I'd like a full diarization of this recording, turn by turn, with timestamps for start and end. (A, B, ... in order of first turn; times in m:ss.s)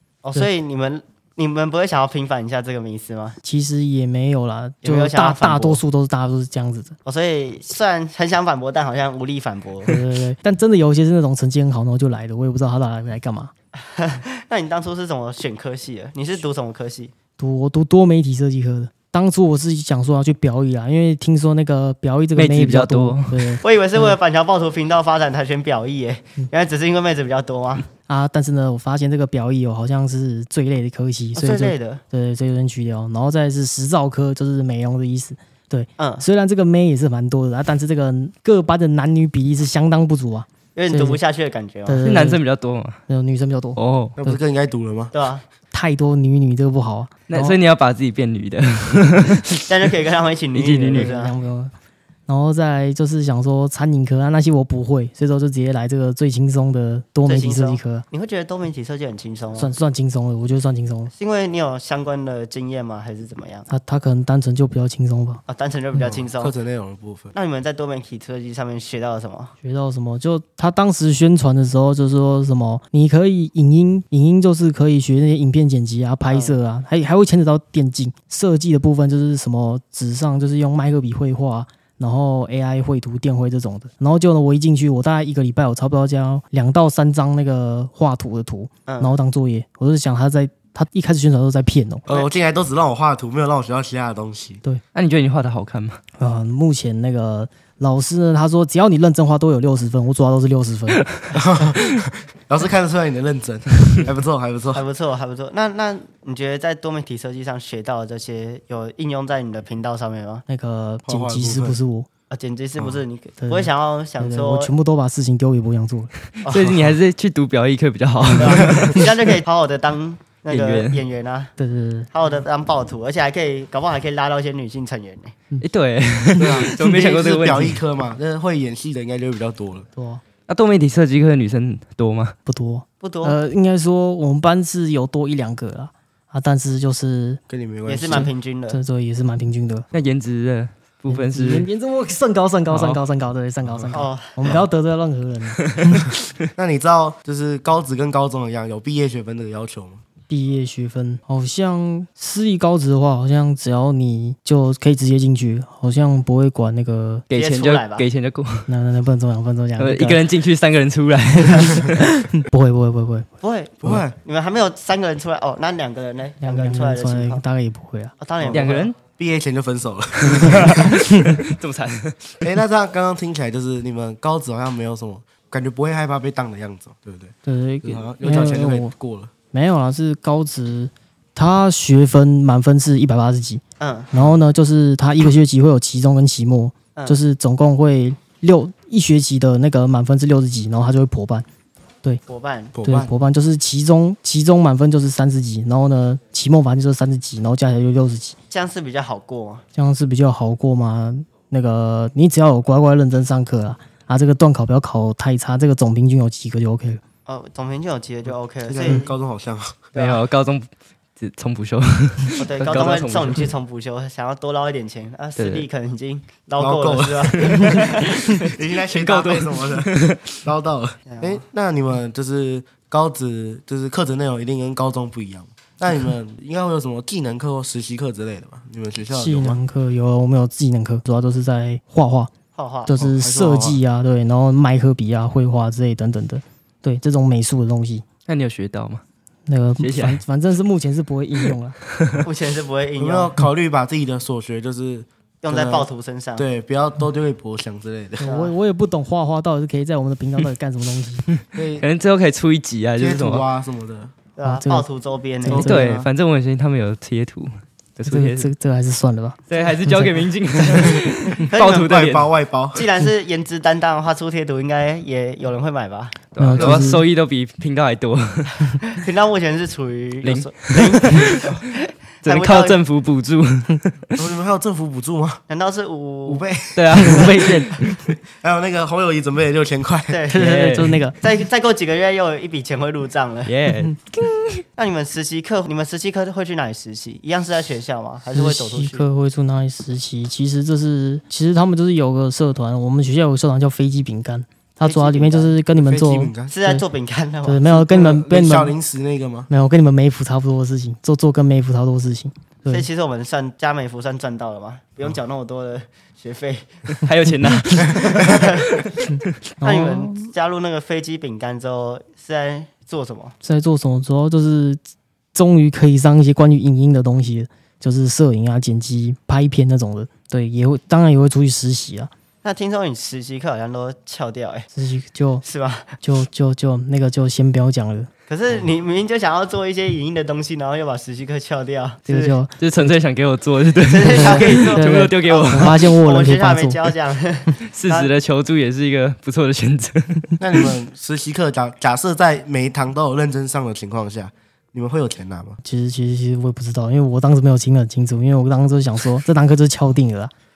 0:00.2-0:03.4 A
0:03.4-0:07.0 B
0:04.8-0:05.8 A
0:07.0-0:10.0 A
0:09.8-0:13.5 B
0:13.8-0:17.1 A
0:17.4-0:24.2 B
0:22.3-0:23.6 C
0:23.6-0:27.8 A
0:28.1-0:41.2 B
0:31.4-0:32.0 A
0:36.0-0:36.2 A
0:40.7-0:42.0 A
0:41.8-0:42.4 B
0:42.0-0:43.0 C
0:43.1-0:44.4 B
0:43.8-0:44.1 C
0:44.2-0:45.1 D
0:45.1-0:45.4 A
0:45.7-0:47.6 B
0:47.3-0:49.7 C
0:49.7-0:51.3 A
0:50.5-0:51.1 C
0:50.9-0:51.7 B
0:52.3-0:58.0 B
0:57.2-0:59.7 A
0:59.6-1:01.1 B
1:01.1-1:03.7 A
1:03.7-1:05.4 B
1:05.5-1:06.5 A
1:06.1-1:07.3 D
1:07.3-1:09.5 A
1:09.6-1:32.0 B
1:28.8-1:29.2 A
1:32.1-1:34.6 D
1:34.9-1:36.0 C
1:36.2-1:41.1 B
1:41.3-1:44.8 D
1:44.7-1:50.4 A
1:50.5-1:52.1 B
1:51.0-1:51.8 D
1:52.3-1:54.7 A
1:53.4-1:56.1 B
1:56.4-1:56.8 A
1:56.5-1:59.0 C
1:58.3-2:01.5 A
2:00.5-2:01.0 C
2:01.6-2:02.1 B
2:02.1-2:05.3 A
2:05.6-2:07.8 C
2:06.4-2:09.9 D
2:10.0-2:10.2 B
2:10.5-2:12.3 C
2:12.5-2:17.4 B
2:13.0-2:13.4 A
2:17.5-2:18.3 D
2:17.8-2:18.8 A
2:18.1-2:19.9 B
2:19.9-2:21.7 C
2:21.1-2:26.1 B
2:22.7-2:23.0 C
2:23.7-2:24.0 D
2:23.9-2:24.4 A
2:25.7-2:26.0 C
2:26.5-2:30.0 D
2:30.3-2:37.3 B
2:37.3-2:38.7 C
2:37.3-2:38.1 A
2:38.7-2:40.2 B
2:39.8-2:42.0 C
2:42.1-2:43.3 B
2:43.4-2:47.4 A
2:43.8-2:44.1 D
2:46.4-2:48.1 B
2:48.2-2:48.9 A
2:48.4-2:51.0 D
2:48.5-2:49.0 C
2:50.3-2:51.2 B
2:50.5-2:52.5 C
2:52.4-2:59.3 D
2:57.4-2:58.9 B
2:59.5-3:11.4 B
3:03.8-3:04.1 A
3:06.9-3:07.2 A
3:12.3-3:12.7 A
3:12.7-3:13.1 D
3:12.8-3:18.4 B
3:18.5-3:19.6 A
3:19.7-3:27.0 B
3:27.2-3:29.1 A
3:28.7-3:29.9 D
3:29.9-3:30.2 A
3:29.9-3:33.5 C
3:32.4-3:38.2 A
3:35.4-3:35.6 C
3:36.6-3:49.6 D
3:37.4-3:40.2 C
3:41.1-3:41.4 A
3:49.1-3:52.3 B
3:52.5-3:52.9 A
3:52.9-3:58.0 B
3:52.9-3:53.8 D
3:58.2-3:59.0 C
3:59.5-4:01.8 B
3:59.8-4:00.2 C
4:02.2-4:03.3 A
4:03.0-4:08.2 D
4:05.4-4:06.4 A
4:08.2-4:11.3 B
4:08.2-4:08.6 A
4:11.5-4:11.9 D
4:11.8-4:13.4 C
4:13.0-4:14.1 D
4:14.4-4:16.1 A
4:14.4-4:14.8 B
4:15.4-4:15.9 B
4:15.5-4:18.5 C
4:18.1-4:20.2 B
4:19.5-4:22.3 C
4:21.5-4:21.9 A
4:21.8-4:22.9 D
4:22.7-4:26.2 A
4:26.3-4:28.7 C
4:26.4-4:27.0 B
4:26.6-4:26.8 D
4:28.8-4:32.8 A
4:30.2-4:31.6 C
4:32.2-4:34.1 C
4:34.2-4:35.4 D
4:35.5-4:36.4 A
4:36.2-4:40.2 D
4:36.7-4:37.8 C
4:40.1-4:40.5 A
4:40.3-4:41.2 B
4:40.4-4:41.0 C
4:41.2-4:43.5 A
4:43.4-4:44.6 C
4:44.8-4:49.0 A
4:48.3-4:56.8 B
4:54.8-4:55.5 A
4:55.7-4:56.5 D
4:56.5-4:57.6 A
4:57.4-4:58.8 B
4:57.7-4:59.5 D
4:59.5-5:02.8 B
5:02.7-5:06.7 A
5:07.0-5:09.1 C
5:08.1-5:08.7 A
5:09.6-5:10.3 B
5:09.6-5:13.3 A
5:13.4-5:14.8 B
5:15.3-5:22.1 B
5:22.4-5:24.7 A
5:24.7-5:25.4 B
5:25.4-5:26.0 A
5:26.0-5:28.1 B
5:28.3-5:32.4 A
5:32.1-5:32.5 B
5:32.6-5:35.8 C
5:33.8-5:38.1 A
5:34.0-5:36.8 B
5:37.7-5:40.4 C
5:40.4-5:45.6 D
5:45.6-5:50.3 B